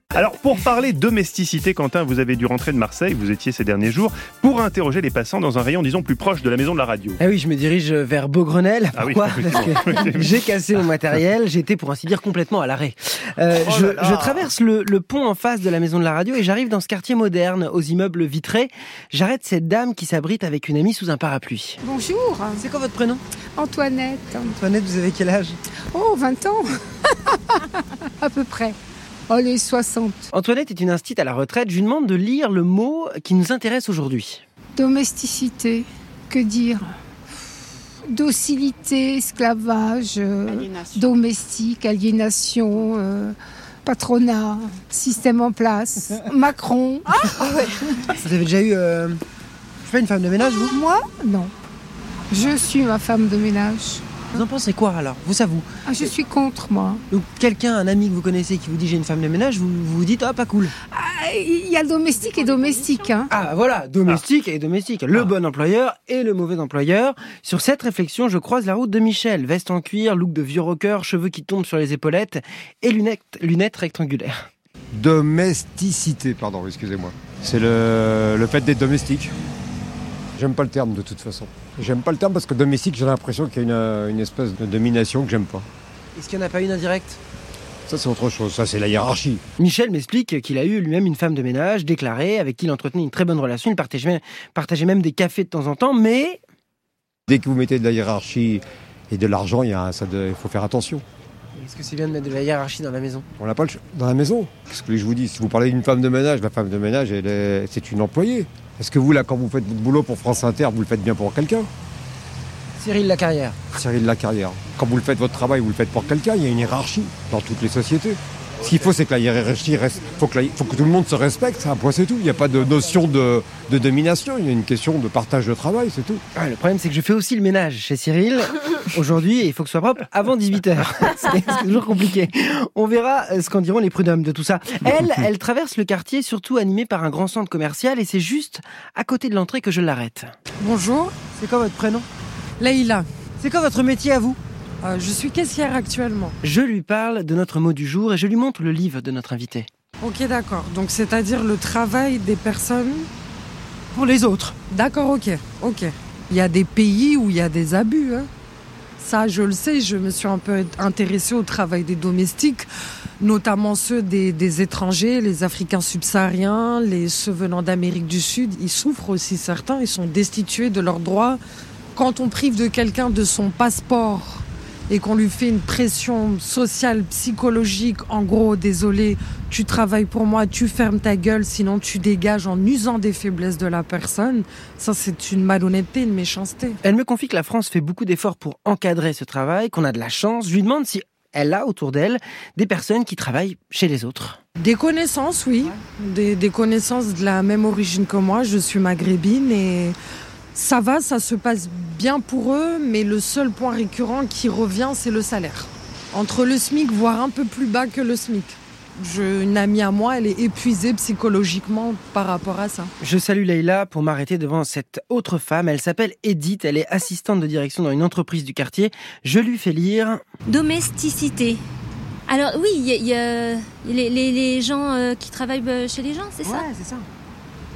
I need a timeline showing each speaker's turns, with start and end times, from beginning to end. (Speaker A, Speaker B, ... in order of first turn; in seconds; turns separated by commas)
Speaker A: 0.1-7.2, Speaker B: 7.2-21.8, Speaker A: 9.0-10.4, Speaker A: 13.7-14.5, Speaker C: 21.8-22.6, Speaker B: 22.6-23.2, Speaker C: 23.6-24.6, Speaker B: 24.4-25.6, Speaker C: 25.9-28.8, Speaker C: 29.3-30.3, Speaker B: 30.3-34.4, Speaker C: 34.8-36.9, Speaker C: 38.1-47.7, Speaker B: 48.1-49.2, Speaker B: 49.9-50.7, Speaker C: 50.7-51.5, Speaker C: 52.3-54.2, Speaker B: 54.3-55.7, Speaker C: 55.9-57.0, Speaker B: 57.1-60.7, Speaker C: 60.9-63.3, Speaker D: 62.2-63.1, Speaker B: 63.3-74.3, Speaker E: 74.9-79.3, Speaker E: 80.4-85.7, Speaker B: 86.2-87.2, Speaker E: 87.9-89.4, Speaker B: 89.6-96.4, Speaker E: 97.3-101.0, Speaker B: 101.6-103.2, Speaker E: 103.4-111.7, Speaker B: 112.8-113.7, Speaker E: 113.7-126.2, Speaker B: 126.3-140.3, Speaker F: 140.6-141.2, Speaker B: 141.3-142.1, Speaker F: 142.6-143.1, Speaker B: 143.4-144.4, Speaker F: 144.8-146.3, Speaker B: 146.4-149.7, Speaker F: 150.0-153.1, Speaker B: 153.9-154.6, Speaker F: 154.7-158.3, Speaker F: 159.0-162.7, Speaker F: 163.2-171.4, Speaker F: 171.9-186.8, Speaker B: 186.8-194.4, Speaker F: 194.6-200.0, Speaker F: 200.6-212.9, Speaker B: 213.0-220.2, Speaker D: 220.5-221.6, Speaker D: 222.3-226.7, Speaker B: 226.4-227.1